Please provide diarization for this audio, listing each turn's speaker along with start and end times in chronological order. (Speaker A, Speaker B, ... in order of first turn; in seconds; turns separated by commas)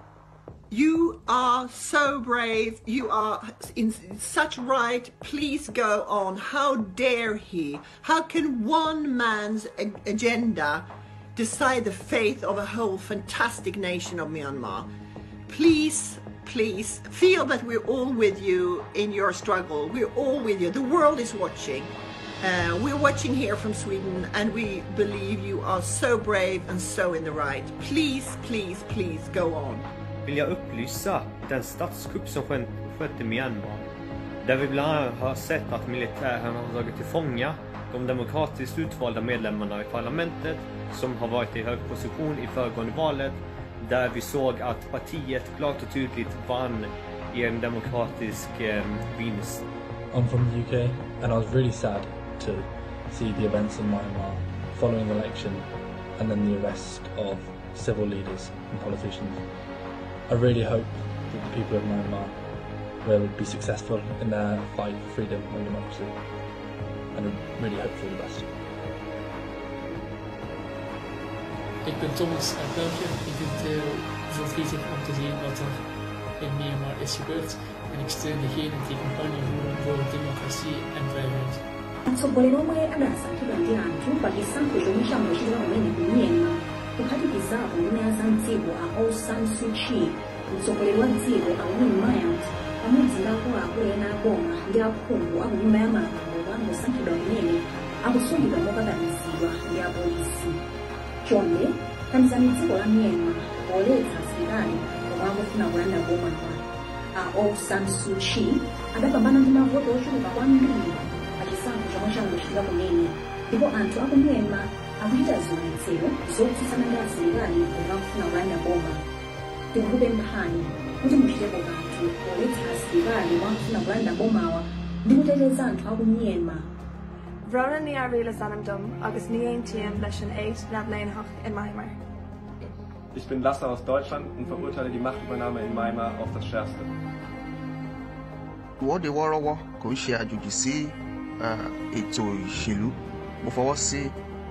Speaker A: 0.7-14.9, Speaker A: 15.5-29.9, Speaker B: 30.3-33.9, Speaker B: 34.4-49.6, Speaker C: 50.1-59.5, Speaker C: 60.3-62.4, Speaker C: 63.0-66.2, Speaker C: 67.1-68.5, Speaker D: 71.8-81.7, Speaker E: 82.1-100.6, Speaker E: 101.2-119.0, Speaker E: 119.7-126.7, Speaker F: 127.5-131.9, Speaker G: 133.1-136.9, Speaker H: 138.8-144.1